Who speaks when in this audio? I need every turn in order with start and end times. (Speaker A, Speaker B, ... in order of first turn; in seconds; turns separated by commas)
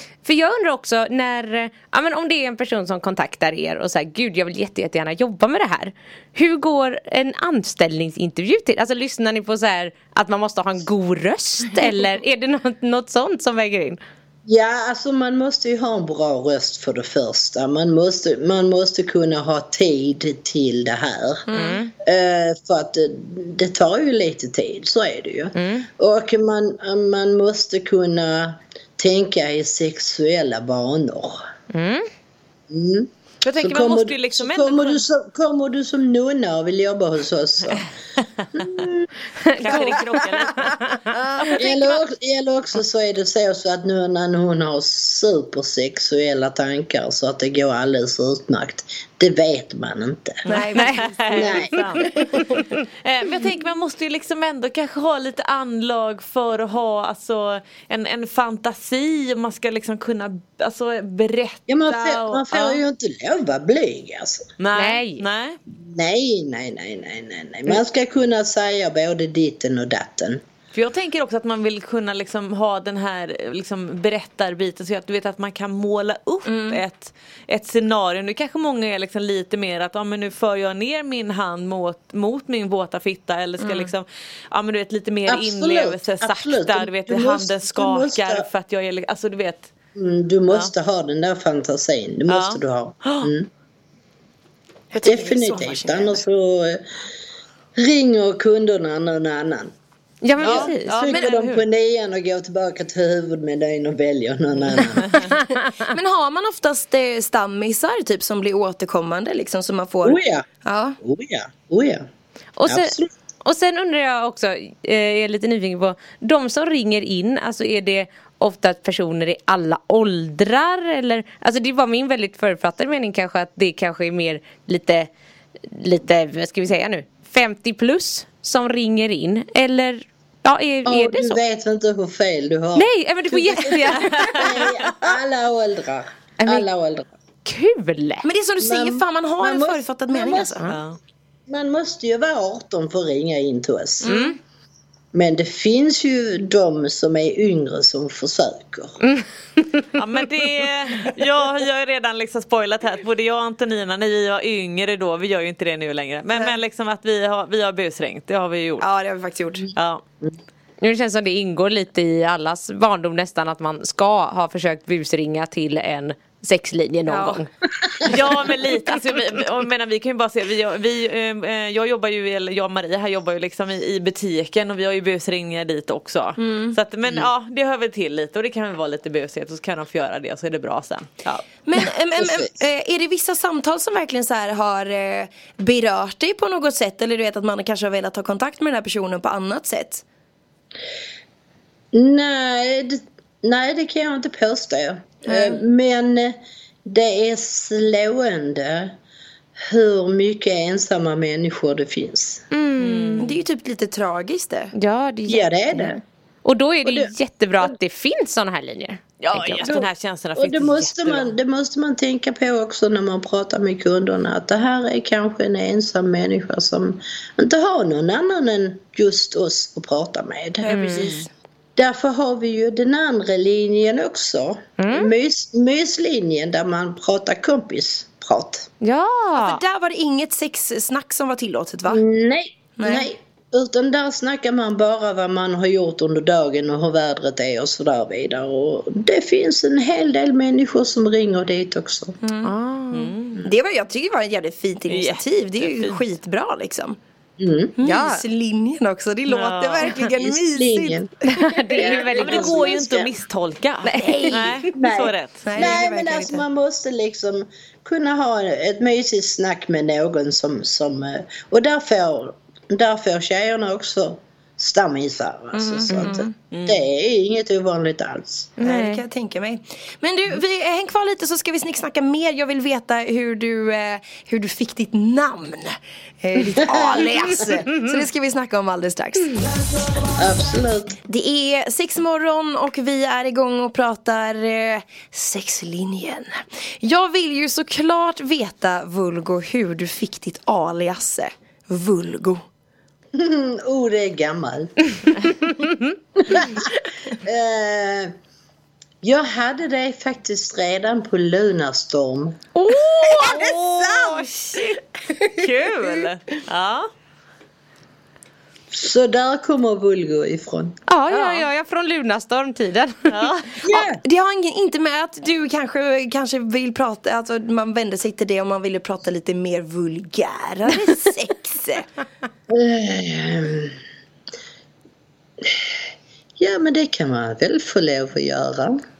Speaker A: 0.2-14.0, Speaker B: 14.4-21.5, Speaker C: 21.5-21.8, Speaker A: 21.5-21.9, Speaker B: 22.0-31.4, Speaker A: 25.6-25.9, Speaker A: 31.7-32.1, Speaker B: 32.7-37.9, Speaker D: 33.4-35.0, Speaker B: 38.5-39.0, Speaker A: 39.4-41.1, Speaker D: 39.6-40.8, Speaker C: 41.1-41.5, Speaker B: 41.5-50.4, Speaker C: 50.5-51.6, Speaker D: 50.5-52.3, Speaker A: 50.7-52.6, Speaker B: 51.3-51.8, Speaker D: 53.0-62.8, Speaker B: 61.7-64.5, Speaker D: 64.6-65.6, Speaker A: 64.7-65.2, Speaker B: 65.7-70.4, Speaker D: 70.7-89.7, Speaker C: 76.5-76.8, Speaker C: 83.6-83.9, Speaker B: 85.3-88.5, Speaker B: 89.9-93.5, Speaker D: 92.3-93.3, Speaker C: 94.9-96.2, Speaker B: 95.0-96.8, Speaker B: 97.8-99.7, Speaker A: 100.2-101.0, Speaker B: 100.4-105.2, Speaker D: 100.4-101.6, Speaker C: 105.9-111.0, Speaker B: 110.0-110.5, Speaker B: 111.0-112.1, Speaker A: 112.6-125.1, Speaker B: 112.7-113.1, Speaker A: 125.7-131.4, Speaker B: 130.8-137.1, Speaker A: 132.7-134.7, Speaker A: 136.4-136.7, Speaker A: 137.4-138.3, Speaker C: 138.2-140.7, Speaker B: 138.6-140.7, Speaker D: 140.7-141.0, Speaker B: 141.5-144.1, Speaker A: 144.0-144.4, Speaker B: 145.1-149.0, Speaker D: 149.9-158.9, Speaker C: 158.8-159.7, Speaker D: 159.7-160.0, Speaker A: 160.8-167.5, Speaker C: 167.1-167.4, Speaker D: 168.0-181.5, Speaker C: 176.4-176.8, Speaker C: 181.6-190.0, Speaker B: 182.2-182.5, Speaker B: 191.9-198.9, Speaker C: 195.3-195.6, Speaker B: 199.6-202.4, Speaker A: 202.5-203.3, Speaker D: 202.8-203.4, Speaker C: 203.2-204.7, Speaker A: 204.7-209.7, Speaker B: 205.3-206.0, Speaker B: 206.8-207.1, Speaker D: 209.2-211.3, Speaker B: 210.3-221.1, Speaker C: 220.6-221.3, Speaker A: 220.7-221.1, Speaker B: 221.8-228.7, Speaker A: 224.8-225.1, Speaker A: 228.8-229.6, Speaker C: 229.3-232.0, Speaker B: 231.9-242.2, Speaker C: 232.8-233.1, Speaker C: 242.2-242.5, Speaker A: 242.4-243.1, Speaker D: 242.9-243.5, Speaker C: 243.4-247.0, Speaker D: 244.9-246.0, Speaker B: 247.4-247.7, Speaker C: 247.8-251.0, Speaker A: 247.8-248.2, Speaker D: 249.3-250.0, Speaker B: 250.0-251.1, Speaker A: 251.2-252.6, Speaker B: 251.7-253.1, Speaker D: 252.1-255.7, Speaker A: 253.8-254.7, Speaker C: 253.9-254.6, Speaker B: 254.7-268.6, Speaker C: 255.4-256.4, Speaker C: 265.5-266.3, Speaker D: 266.5-266.8, Speaker A: 268.6-269.0, Speaker C: 268.6-279.4, Speaker B: 276.6-277.1, Speaker B: 280.1-281.0, Speaker C: 281.1-292.4, Speaker B: 293.1-295.3, Speaker B: 296.2-298.1, Speaker B: 299.0-302.4, Speaker A: 302.6-303.4, Speaker C: 302.9-304.6, Speaker D: 303.2-306.9, Speaker B: 308.7-310.8, Speaker A: 310.9-313.1, Speaker D: 313.1-313.6, Speaker B: 313.6-314.0, Speaker C: 313.7-321.9, Speaker B: 322.5-323.8, Speaker B: 325.4-325.8, Speaker B: 326.4-328.8